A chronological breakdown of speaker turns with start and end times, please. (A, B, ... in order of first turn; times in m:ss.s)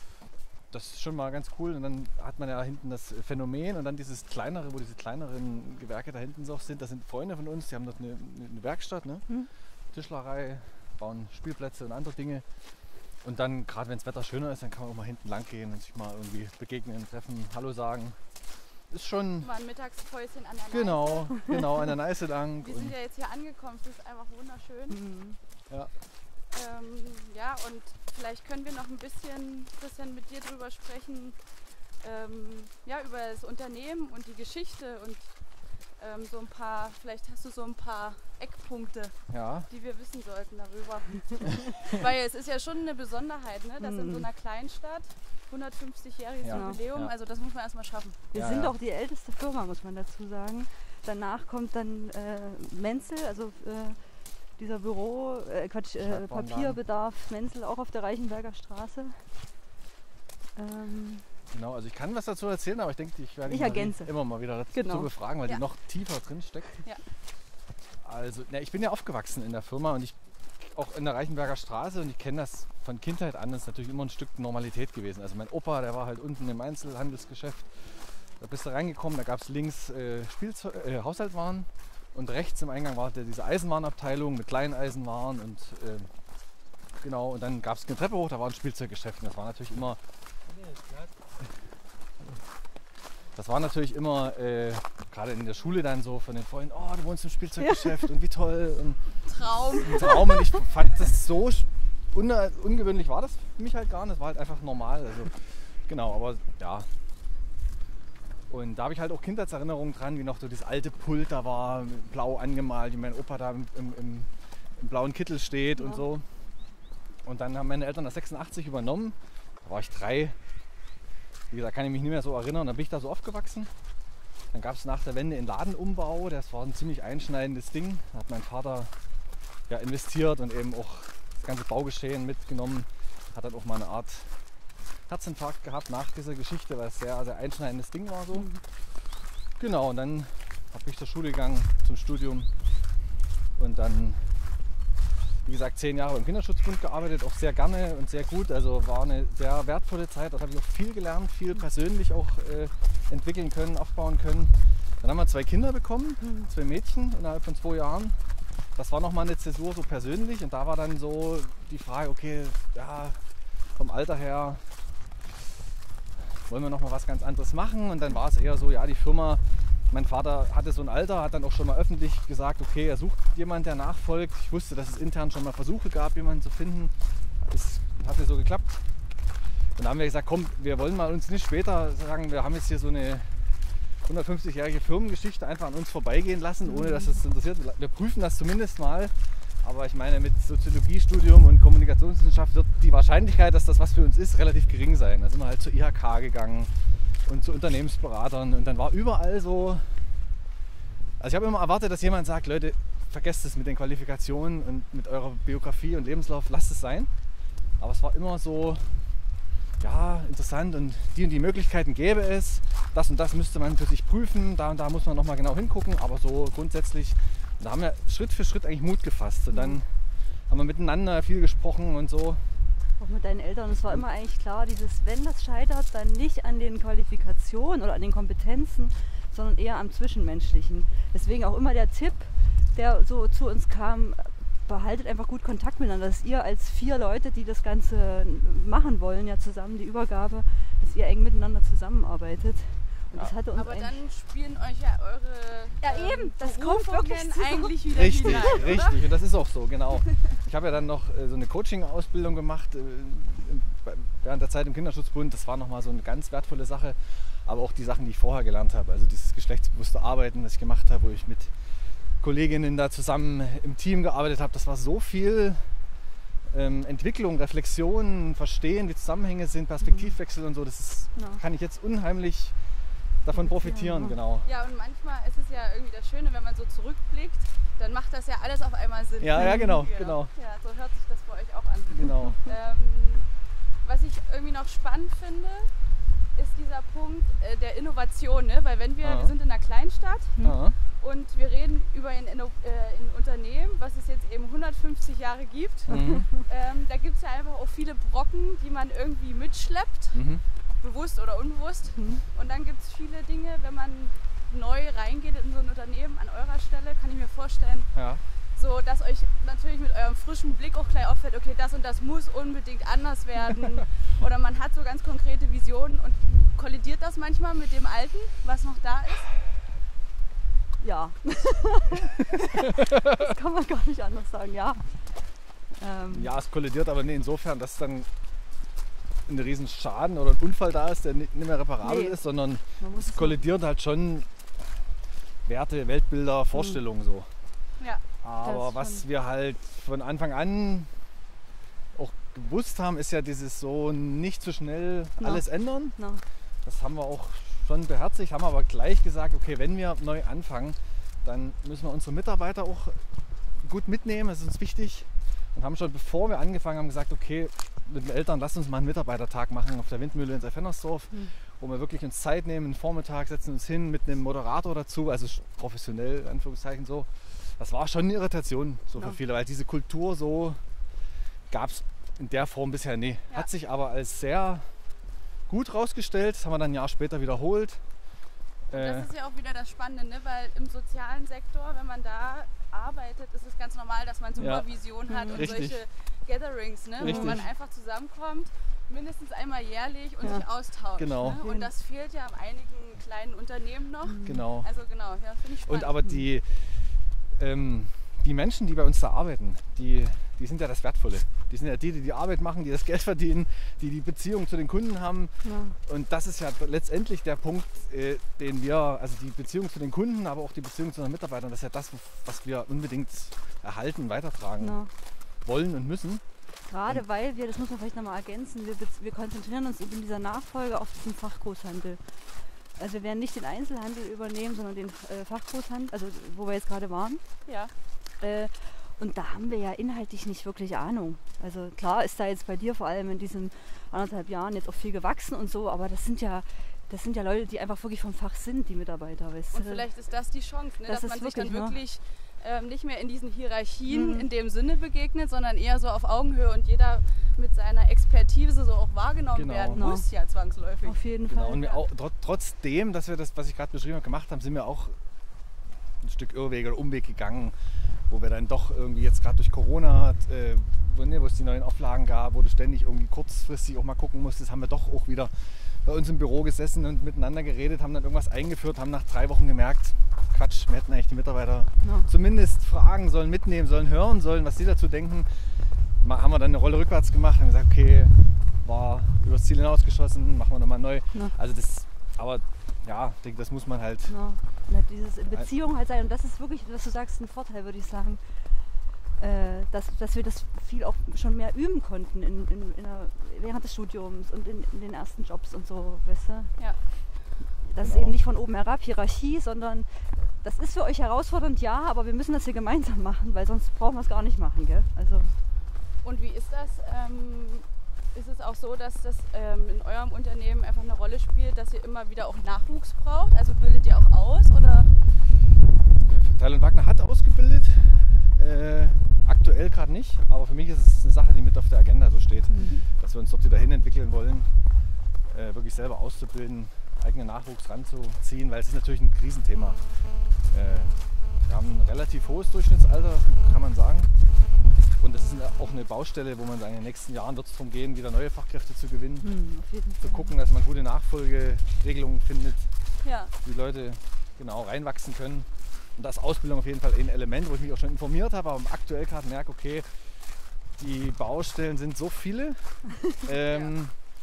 0:00.7-0:09.3 A
0:09.9-0:12.4 A
0:13.2-0:18.2 A
0:18.9-0:19.5 A
0:19.4-0:21.6 B
0:20.7-0:22.9 A
0:22.6-0:25.0 B
0:24.9-0:25.4 C
0:26.5-0:31.4 B
0:32.0-0:35.3 B
0:36.0-0:39.2 B
0:39.3-0:39.7 A
0:39.7-0:48.2 B
0:43.8-0:44.3 C
0:46.4-0:47.1 A
0:46.5-0:46.8 C
0:48.3-0:54.0 C
0:48.3-0:48.8 A
0:54.6-0:59.3 C
0:56.0-0:56.8 A
1:00.6-1:01.3 C
1:01.5-1:06.8 A
1:03.4-1:04.1 C
1:04.7-1:05.1 C
1:08.0-1:26.1 A
1:27.0-1:30.0 A
1:33.3-1:46.9 A
1:37.6-1:38.1 C
1:39.3-1:40.7 B
1:48.5-1:56.3 A
1:55.8-1:56.1 C
1:57.2-2:00.4 A
2:01.5-2:03.7 A
2:04.5-2:09.0 A
2:09.7-2:14.4 A
2:15.1-2:18.5 A
2:18.3-2:18.6 C
2:19.6-2:22.5 A
2:23.6-2:24.4 A
2:25.4-2:44.8 A
2:36.2-2:36.5 C
2:46.4-2:58.8 A
2:59.8-3:20.2 A
3:06.6-3:07.1 C
3:21.2-3:27.1 A
3:27.8-3:29.1 A
3:29.8-3:39.9 A
3:39.5-3:39.8 C
3:40.5-3:42.5 A
3:43.0-4:04.0 C
4:03.6-4:09.1 B
4:05.8-4:08.8 C
4:07.9-4:21.6 A
4:22.2-4:25.8 A
4:26.5-4:32.6 A
4:29.8-4:30.1 C
4:31.1-4:31.4 C
4:33.2-4:34.5 A
4:33.4-4:34.2 C
4:34.4-4:43.3 B
4:39.2-4:40.3 A
4:39.4-4:39.8 C
4:41.9-4:42.4 A
4:43.8-4:45.7 B
4:46.3-5:00.2 B
4:49.0-4:49.3 A
4:50.4-4:50.8 A
4:55.9-4:56.3 A
4:56.0-4:56.2 C
5:00.1-5:00.4 A
5:00.8-5:07.9 B
5:02.0-5:02.2 C
5:08.0-5:08.2 A
5:08.5-5:19.3 B
5:20.8-5:26.3 C
5:26.1-5:28.1 A
5:29.2-5:34.3 A
5:31.8-5:32.2 C
5:32.8-5:33.4 C
5:35.4-5:37.3 A
5:36.5-5:36.8 C
5:38.2-5:40.9 A
5:38.4-5:39.1 C
5:41.9-5:46.0 A
5:45.2-5:46.2 C
5:46.6-5:53.0 A
5:53.6-6:10.6 A
6:11.5-6:14.8 A
6:15.5-6:17.8 A
6:18.7-6:19.1 A
6:18.7-6:36.0 B
6:24.4-6:24.7 A
6:25.1-6:25.5 C
6:25.3-6:25.8 A
6:27.0-6:27.5 A
6:27.0-6:27.5 C
6:30.2-6:30.5 C
6:31.0-6:31.4 A
6:31.2-6:31.7 C
6:34.0-6:34.5 C
6:34.2-6:34.7 A
6:35.6-6:54.8 A
6:45.4-6:45.8 C
6:54.6-6:54.9 C
6:55.4-6:56.2 A
6:56.6-7:07.2 C
7:07.5-7:07.7 B
7:08.2-7:19.9 C
7:19.5-7:31.8 B
7:20.9-7:21.8 C
7:23.9-7:24.3 C
7:29.3-7:29.8 A
7:29.7-7:30.1 C
7:30.8-7:31.6 C
7:31.3-7:35.0 A
7:36.0-8:04.2 A
7:51.8-7:52.1 C
8:04.1-8:08.6 C
8:09.2-8:16.6 C
8:17.4-8:25.4 C
8:17.8-8:18.2 A
8:26.0-8:34.9 B
8:35.9-8:44.6 A
8:42.5-8:42.8 C
8:45.2-8:54.1 A
8:55.0-8:59.3 A
8:59.2-9:00.3 C
9:00.0-9:02.7 A
9:03.0-9:03.3 B
9:03.4-9:10.1 A
9:10.8-9:14.0 A
9:13.3-9:13.8 B